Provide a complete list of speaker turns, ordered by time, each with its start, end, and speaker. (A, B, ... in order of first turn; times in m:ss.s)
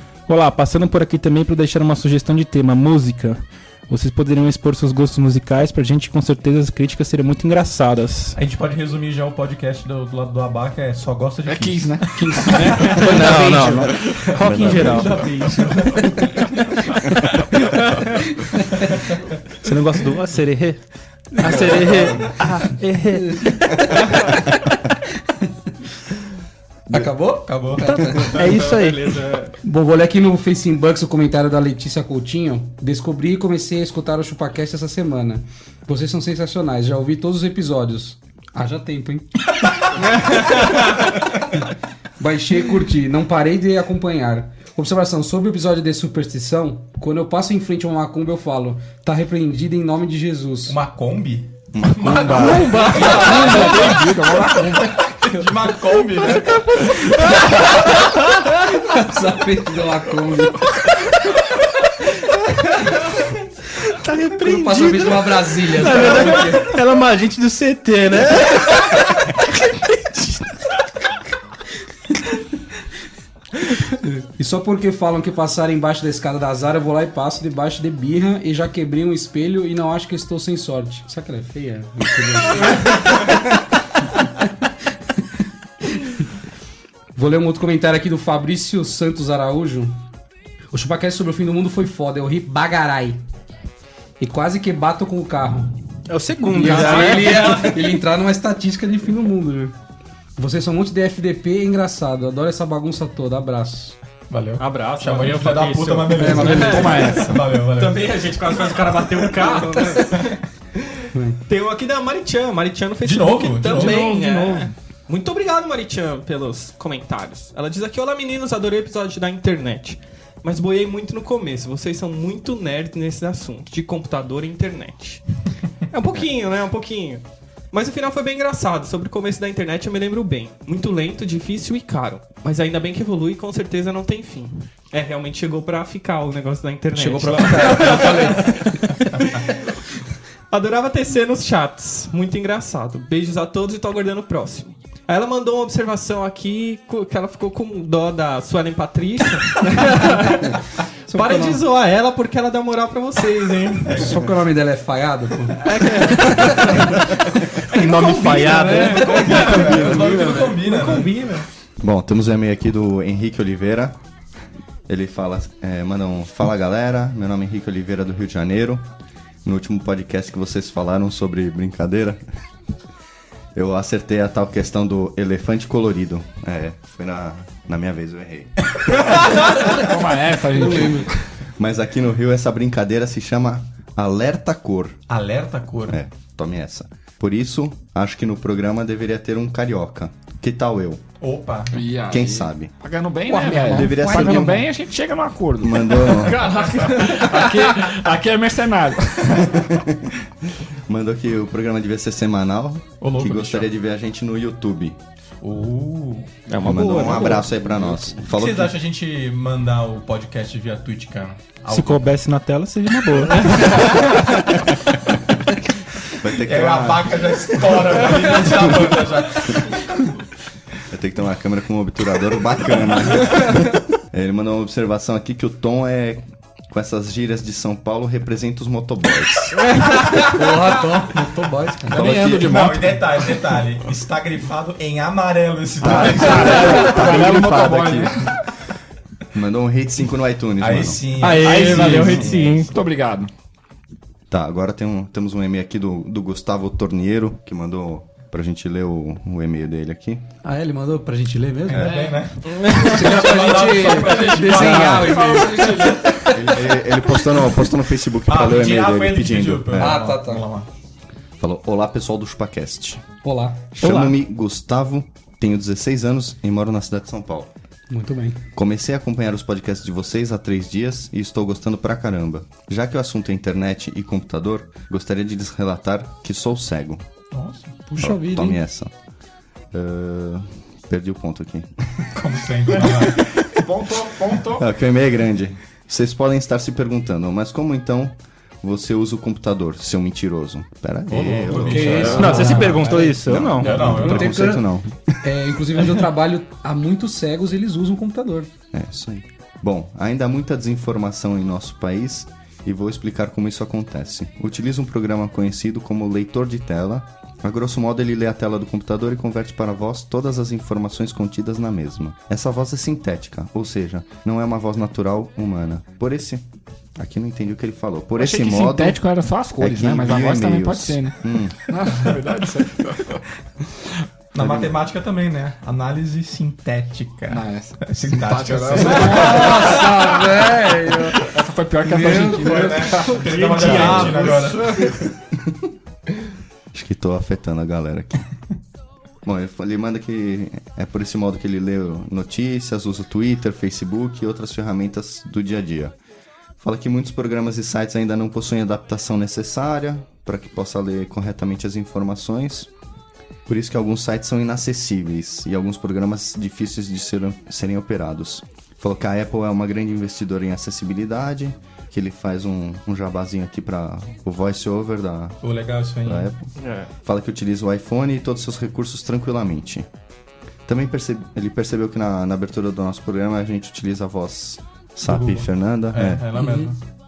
0:00.3-0:08.4 A
0:08.4-0:13.0 B
0:11.5-0:14.2 C
0:12.6-0:13.1 D
0:12.7-0:15.3 A
0:14.4-0:15.2 E
0:14.7-0:15.4 B
0:14.7-0:16.2 D
0:19.6-0:20.8 A
0:21.3-0:23.6 A
0:21.5-0:22.4 B
0:21.5-0:21.9 D
0:23.4-0:24.0 F
0:26.9-0:28.5 F
0:27.4-0:28.6 B
0:28.2-0:29.2 A
0:28.2-0:29.6 D
0:29.6-0:40.9 F
0:42.2-0:50.8 F
0:50.7-0:54.0 B
0:51.7-0:52.7 E
0:52.2-0:53.7 D
0:52.4-0:55.1 C
0:52.8-0:53.9 F
0:55.0-0:56.8 B
0:57.4-0:57.9 F
0:58.6-1:00.7 F
1:04.0-1:09.2 A
1:04.3-1:06.8 F
1:14.1-1:23.4 F
1:27.2-1:30.0 F
1:30.7-1:33.2 F
1:34.2-1:35.8 F
1:36.1-1:37.9 A
1:36.3-1:39.8 F
1:36.6-1:37.7 D
1:40.4-1:44.0 F
1:44.3-1:48.1 B
1:44.6-1:50.2 D
1:46.2-1:47.2 F
1:46.2-1:47.4 C
1:49.8-1:50.3 F
1:51.1-1:51.4 F
1:51.5-2:05.2 D
1:53.0-1:54.1 B
1:53.7-1:54.7 C
2:05.9-2:19.4 D
2:17.0-2:18.7 F
2:17.0-2:18.5 B
2:19.1-2:19.4 B
2:20.5-2:30.6 D
2:31.1-2:31.6 F
2:31.1-2:34.2 D
2:33.9-2:34.2 B
2:33.9-2:37.0 F
2:35.6-2:36.8 D
2:37.7-2:39.2 A
2:38.0-2:40.5 F
2:38.0-2:41.4 D
2:39.1-2:41.2 B
2:41.8-2:44.0 E
2:44.9-2:48.9 E
2:49.4-2:52.2 E
2:53.5-2:58.6 E
2:59.6-3:01.2 C
2:59.6-3:01.1 F
3:01.6-3:05.0 E
3:05.1-3:06.0 B
3:05.9-3:11.0 E
3:11.2-3:11.8 B
3:11.7-3:19.7 C
3:12.1-3:12.7 E
3:13.3-3:14.6 F
3:13.6-3:14.7 E
3:15.6-3:16.5 E
3:16.3-3:17.5 D
3:19.4-3:20.1 E
3:20.9-3:25.0 E
3:23.0-3:23.7 B
3:25.4-3:26.6 B
3:26.5-3:27.9 A
3:26.6-3:28.7 E
3:26.7-3:27.4 C
3:28.2-3:32.2 B
3:31.7-3:34.7 A
3:36.2-3:37.3 E
3:36.4-3:39.9 B
3:40.9-3:49.7 E
3:50.0-3:52.2 F
3:51.9-3:53.0 E
3:52.0-3:52.5 C
3:52.1-3:57.7 B
3:55.8-3:56.3 E
3:55.8-3:58.4 C
3:57.0-3:57.3 F
3:57.1-3:58.1 A
3:59.3-4:01.1 E
4:00.6-4:02.7 B
4:01.2-4:02.7 D
4:01.4-4:03.3 C
4:04.3-4:10.3 E
4:10.4-4:16.6 F
4:11.7-4:15.5 B
4:11.8-4:12.1 C
4:14.5-4:15.2 E
4:14.8-4:16.5 C
4:16.3-4:20.0 E
4:18.3-4:20.7 B
4:19.8-4:20.5 F
4:21.4-4:23.0 E
4:23.2-4:23.7 F
4:23.8-4:27.5 E
4:27.9-4:28.4 F
4:28.6-4:37.0 E
4:37.3-4:37.8 B
4:37.9-4:38.6 F
4:38.0-4:38.9 E
4:39.7-4:41.7 E
4:42.1-4:43.3 B
4:43.4-4:44.7 C
4:44.5-4:55.2 E
4:51.1-4:54.5 B
4:51.5-4:54.7 F
4:52.2-4:53.8 A
4:55.2-4:58.5 F
4:58.7-5:16.4 E
5:17.0-5:19.0 E
5:18.2-5:23.2 C
5:19.6-5:21.6 E
5:24.3-5:30.0 B
5:24.4-5:24.7 E
5:27.3-5:30.2 C
5:28.8-5:31.3 F
5:31.2-5:34.1 C
5:31.8-5:33.1 F
5:32.0-5:34.9 B
5:33.0-5:35.0 D
5:36.7-5:38.3 E
5:39.2-5:46.0 E
5:46.6-5:52.7 E
5:53.5-6:05.4 E
6:05.4-6:06.3 B
6:06.0-6:06.5 E
6:06.6-6:06.9 D
6:07.0-6:09.9 E
6:10.7-6:16.3 E
6:15.0-6:16.8 B
6:16.4-6:16.7 F